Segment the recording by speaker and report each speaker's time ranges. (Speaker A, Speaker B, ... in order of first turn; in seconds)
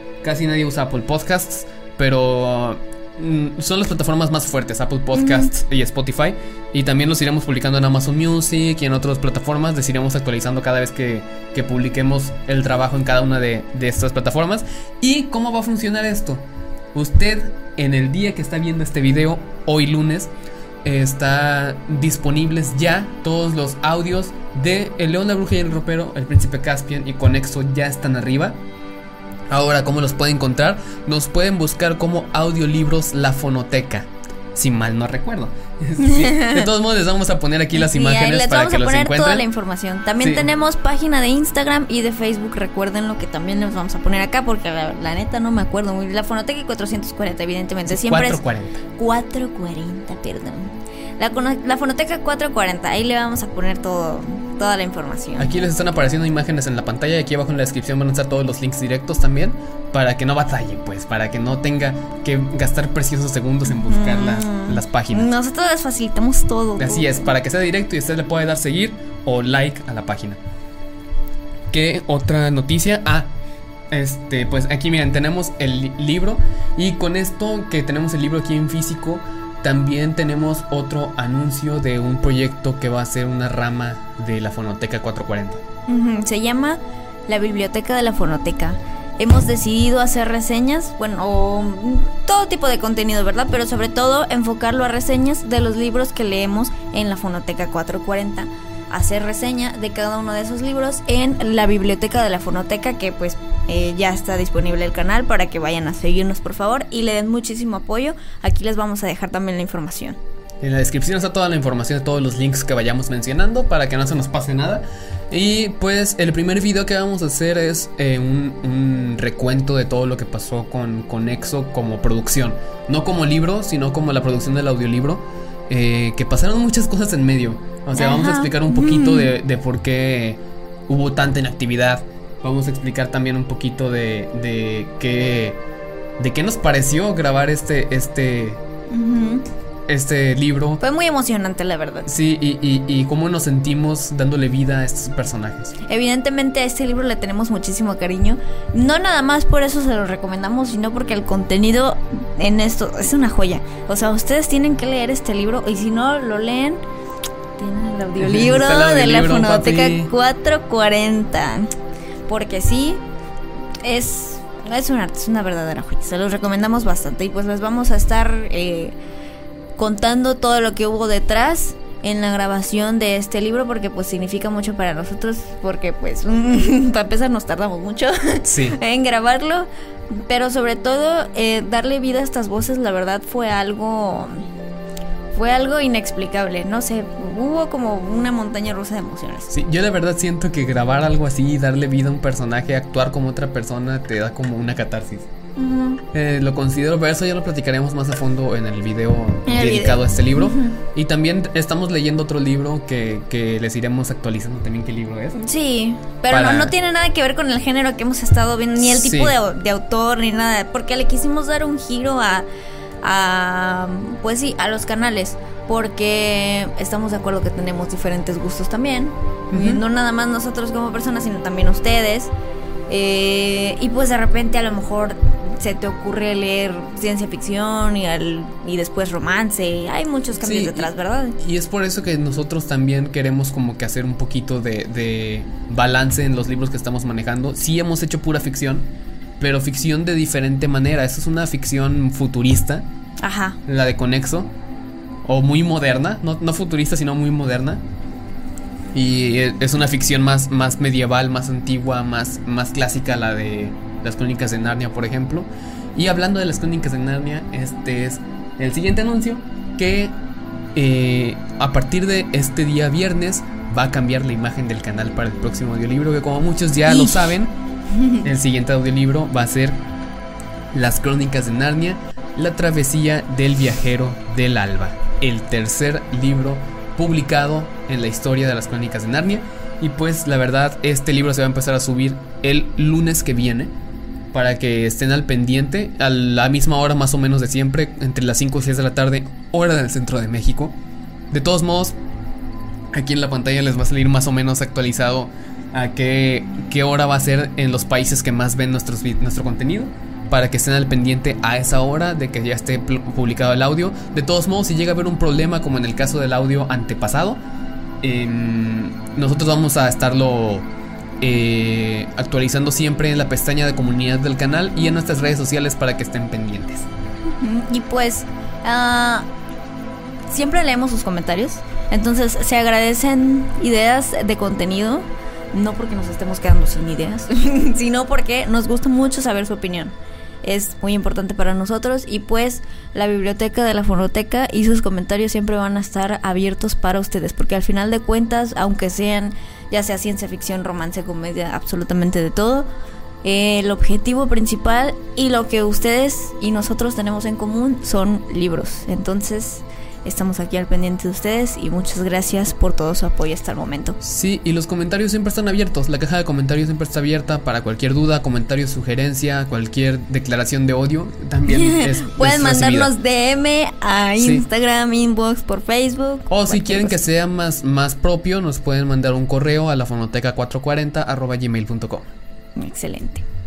Speaker A: 0.2-20.3, 20.9-28.6, 29.5-39.5, 40.2-40.5, 47.9-48.8, 55.4-65.3, 66.8-70.4, 71.7-73.3, 73.9-85.6, 110.6-135.6, 136.2-138.6, 139.9-140.8, 142.1-145.8, 158.2-160.1, 178.4-178.8, 189.5-195.3, 196.1-205.4, 206.3-206.8, 208.8-209.4, 219.5-219.8, 230.4-238.9, 239.4-242.9, 243.7-244.5, 245.2-247.8, 248.9-260.2, 260.8-267.6, 268.2-269.8, 270.7-283.7, 284.3-290.8, 291.3-292.0, 292.9-307.4, 308.0-310.7, 311.2-316.9, 354.0-362.9, 364.2-364.4, 366.3-372.1
Speaker B: 5.2-5.5, 36.0-36.7, 37.7-48.4, 49.0-55.6, 63.7-67.3, 85.9-110.2, 128.0-129.3, 138.9-139.4, 140.8-142.1, 145.8-156.8, 157.6-161.7, 162.3-163.0, 163.8-169.0, 169.8-184.4, 185.3-189.5, 195.6-196.0, 199.5-200.8, 205.4-212.5, 213.0-222.3, 222.9-231.4, 243.2-243.6, 266.9-267.3, 267.9-268.2, 317.3-319.3, 320.3-342.7, 343.2-354.0, 361.5-367.0, 372.6-373.2